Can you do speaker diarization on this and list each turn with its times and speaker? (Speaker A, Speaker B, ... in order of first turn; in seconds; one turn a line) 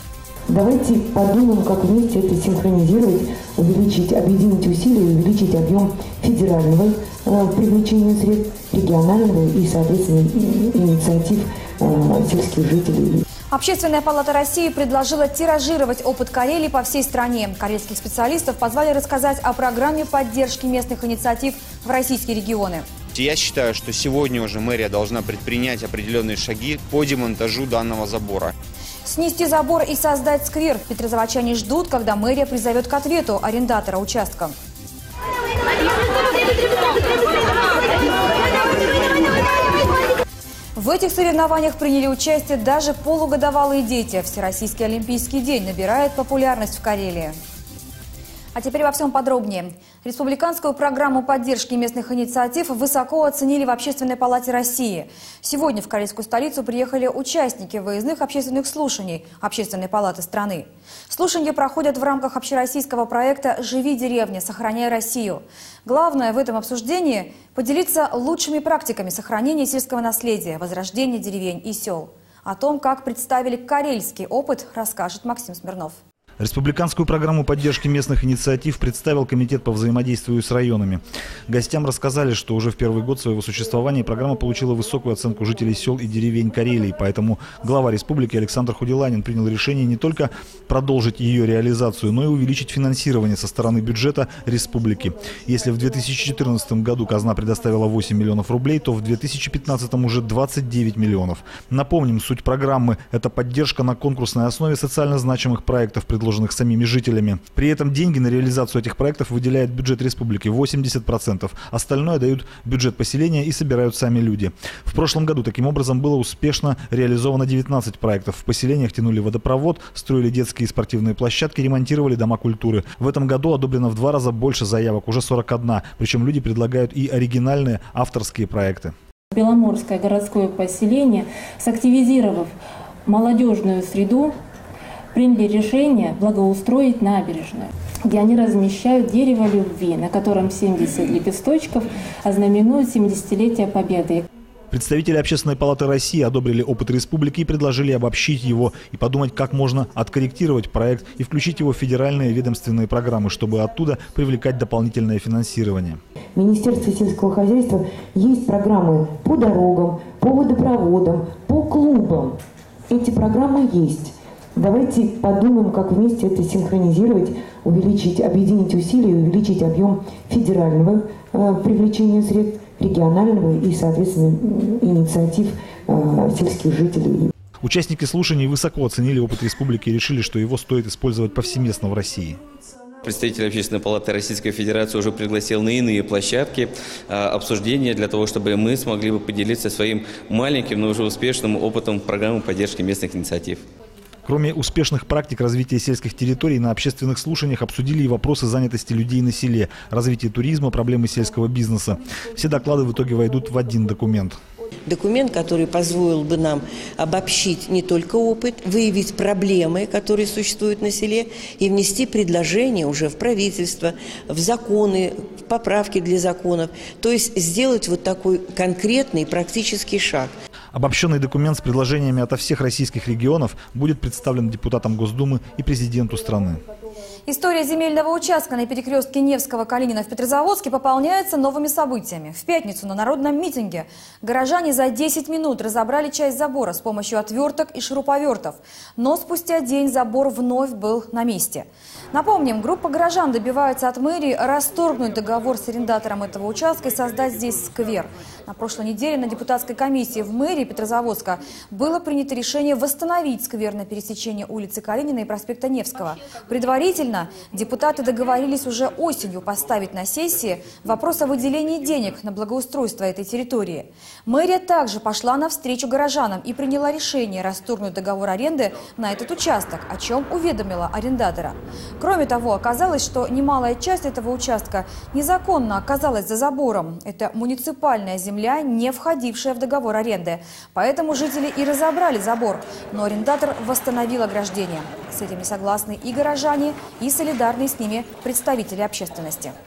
Speaker A: 0.5-13.2
Speaker B: 13.5-22.9
Speaker C: 23.1-28.5
Speaker B: 29.1-34.5
Speaker B: 40.8-47.4
Speaker B: 48.5-76.0
Speaker D: 76.4-128.9
Speaker E: 129.3-132.5
Speaker E: 133.1-134.3
Speaker E: 135.1-144.2
Speaker D: 144.7-156.0
Speaker A: 156.4-162.4
Speaker A: 162.9-177.3
Speaker D: 177.6-182.4
Speaker F: 183.1-193.6
Speaker D: 194.2-204.4
Speaker G: 204.9-220.3
Speaker D: 220.7-226.6
Speaker B: 227.3-289.6